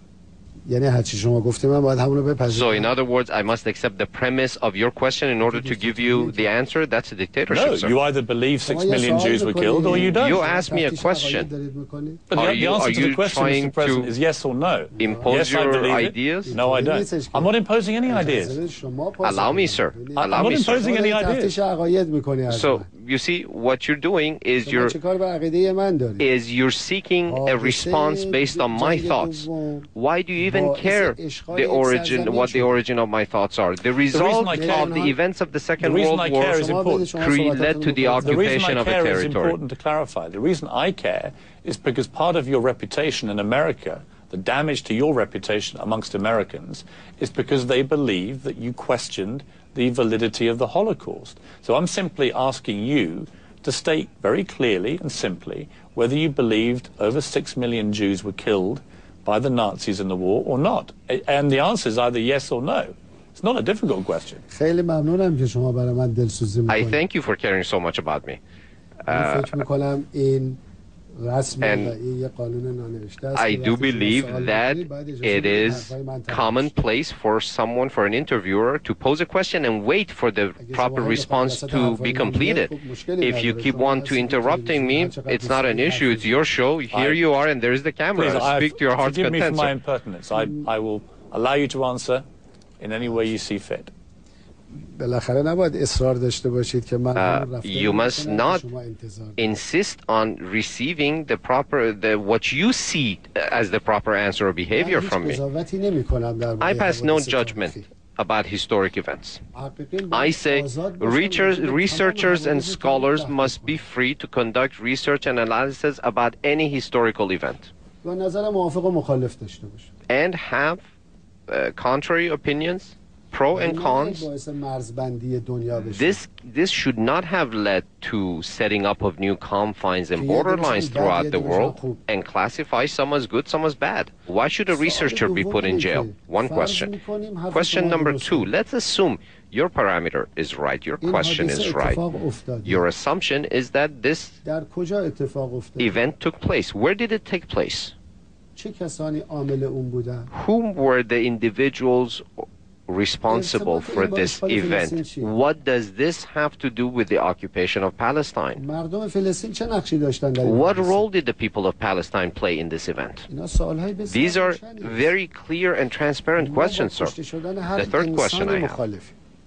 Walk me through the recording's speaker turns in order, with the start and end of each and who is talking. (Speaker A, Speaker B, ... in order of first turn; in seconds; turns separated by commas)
Speaker A: 0.7-2.9, Speaker B: 2.5-7.9, Speaker A: 5.4-6.5, Speaker C: 7.5-10.4, Speaker A: 8.7-12.2, Speaker B: 9.9-11.5, Speaker C: 12.3-18.6, Speaker B: 12.3-14.1, Speaker A: 14.9-15.4, Speaker B: 15.0-16.5, Speaker A: 16.4-22.9, Speaker B: 19.2-20.8, Speaker C: 20.2-21.6, Speaker B: 22.5-24.9, Speaker A: 24.6-26.3, Speaker B: 26.2-39.6, Speaker A: 27.3-29.9, Speaker A: 30.4-32.8, Speaker C: 34.1-35.0, Speaker A: 34.4-35.2, Speaker C: 35.8-37.1, Speaker A: 36.4-38.5, Speaker C: 38.2-64.4, Speaker A: 64.5-67.0, Speaker B: 66.7-68.4, Speaker B: 69.1-69.6, Speaker A: 69.1-70.6, Speaker A: 71.2-76.8, Speaker B: 71.6-71.9, Speaker B: 73.3-89.7, Speaker A: 80.6-86.5, Speaker C: 86.9-87.2, Speaker C: 88.2-92.2, Speaker C: 92.8-93.9, Speaker A: 94.7-99.6, Speaker B: 97.2-98.6, Speaker B: 99.4-105.4, Speaker A: 104.7-107.9, Speaker B: 106.6-109.4, Speaker A: 109.5-113.8, Speaker B: 110.1-117.7, Speaker A: 118.0-119.9, Speaker B: 120.1-120.8, Speaker B: 121.5-124.3, Speaker A: 123.5-126.2, Speaker B: 125.8-136.9, Speaker A: 130.2-132.0, Speaker A: 134.7-138.5, Speaker B: 137.5-142.0, Speaker A: 141.0-142.9, Speaker B: 142.7-144.3, Speaker A: 144.4-146.0, Speaker B: 145.8-147.9, Speaker A: 148.6-150.3, Speaker B: 150.3-158.6, Speaker A: 153.3-155.3, Speaker A: 158.6-161.1, Speaker B: 160.4-163.3, Speaker A: 163.3-165.1, Speaker B: 164.1-167.1, Speaker A: 166.4-169.1, Speaker B: 167.8-168.8